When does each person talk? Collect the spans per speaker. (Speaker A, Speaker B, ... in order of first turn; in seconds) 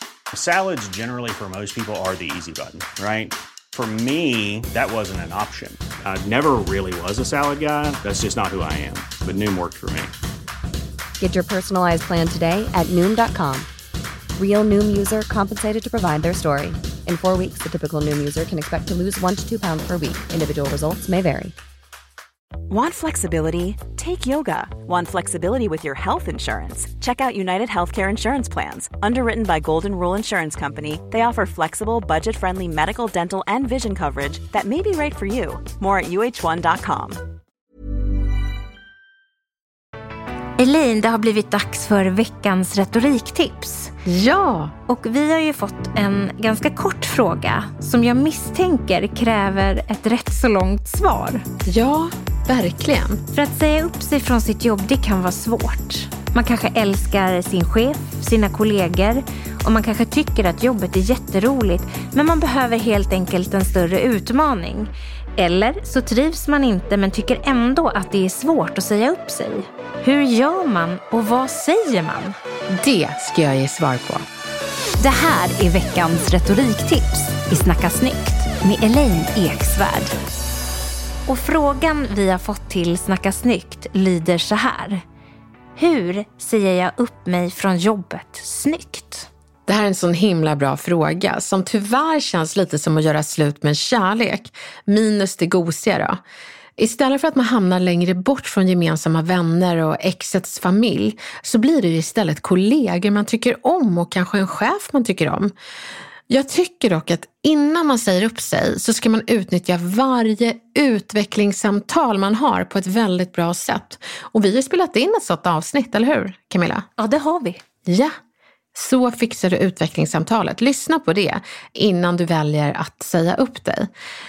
Speaker A: 0.3-10.1
Speaker B: 11.2-13.7, 14.4-21.6
Speaker C: 22.7-37.2
Speaker D: 40.6-43.9, 44.9-51.4, 53.3-72.3, 75.0-80.1, 81.3-85.0, 85.8-89.3, 117.0-117.6
Speaker E: 44.1-44.8, 51.7-53.2, 72.8-74.2, 89.7-96.2, 96.8-105.5, 106.3-116.9, 117.8-118.1, 118.8-123.9